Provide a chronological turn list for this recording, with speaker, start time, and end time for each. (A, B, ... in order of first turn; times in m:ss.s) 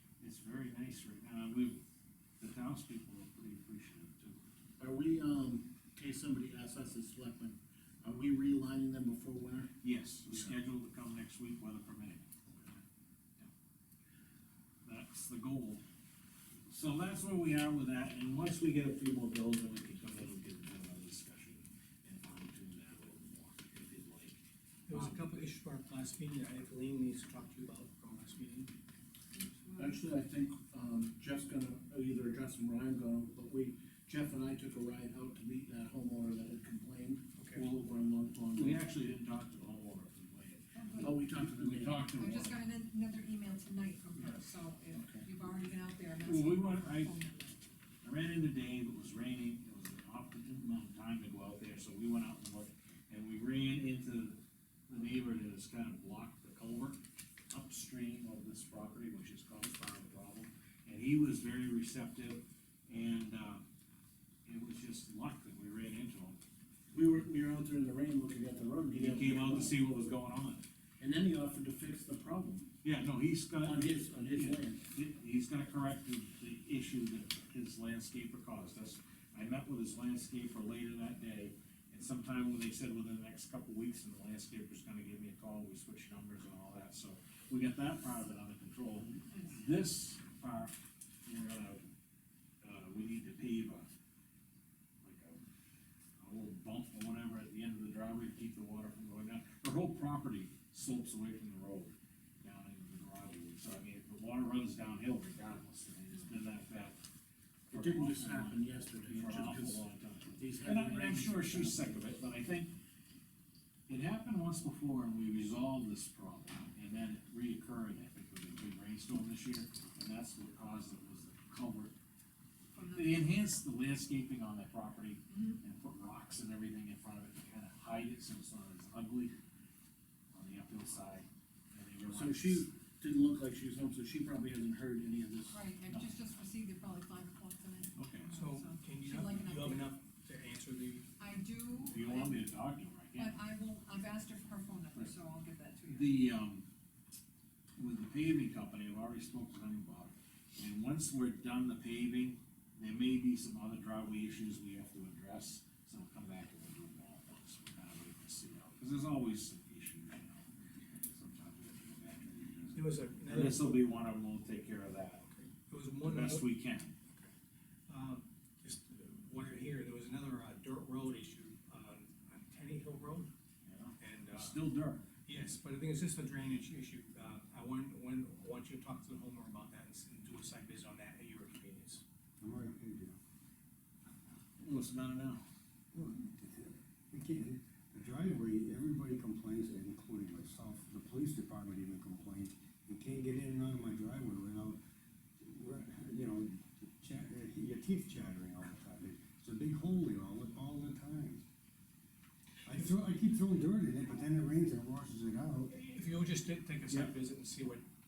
0:00.2-0:01.8 A
0:02.4-0:04.4 A
0:04.8-0:09.7 B
0:09.8-0:12.8 A
0:14.8-0:15.8 A
0:16.7-0:25.2 A
0:24.9-0:28.7 C
0:29.3-0:30.0 D
0:29.8-0:38.8 B
0:37.4-0:37.6 C
0:38.5-0:42.6 A
0:40.8-0:41.1 D
0:41.0-0:42.2 B
0:42.1-0:47.6 D
0:45.0-0:45.2 B
0:46.2-0:47.2 A
0:48.0-0:57.0 A
0:57.5-1:03.6 A
1:04.4-1:06.4 A
1:06.9-1:09.8 B
1:08.9-1:10.6 A
1:11.0-1:12.7 B
1:12.8-1:30.7 A
1:13.6-1:14.8 B
1:31.2-1:31.8 A
1:32.6-1:33.9 A
1:35.0-1:35.4 A
1:36.2-1:47.0 A
1:47.7-1:52.7 A
1:47.7-1:49.8 B
1:50.4-1:52.1 B
1:53.9-2:01.9 A
2:02.7-2:03.2 D
2:02.9-2:09.3 A
2:10.3-2:12.7 A
2:12.1-2:15.6 B
2:15.5-2:19.9 D
2:18.0-2:18.3 A
2:18.4-2:21.0 C
2:21.2-2:22.5 D
2:21.8-2:23.4 A
2:23.1-2:26.3 D
2:25.9-2:26.6 A
2:27.8-2:45.2 A
2:42.7-2:43.9 C
2:45.2-2:46.5 C
2:46.0-2:46.9 A
2:47.9-2:53.3 C
2:53.6-2:55.0 A
2:54.0-2:54.6 C
2:55.2-3:02.0 C
3:02.4-3:03.2 E
3:04.6-3:05.4 A
3:05.9-3:14.8 E
3:15.4-3:21.4 E
3:22.6-3:25.7 E
3:25.7-3:27.8 C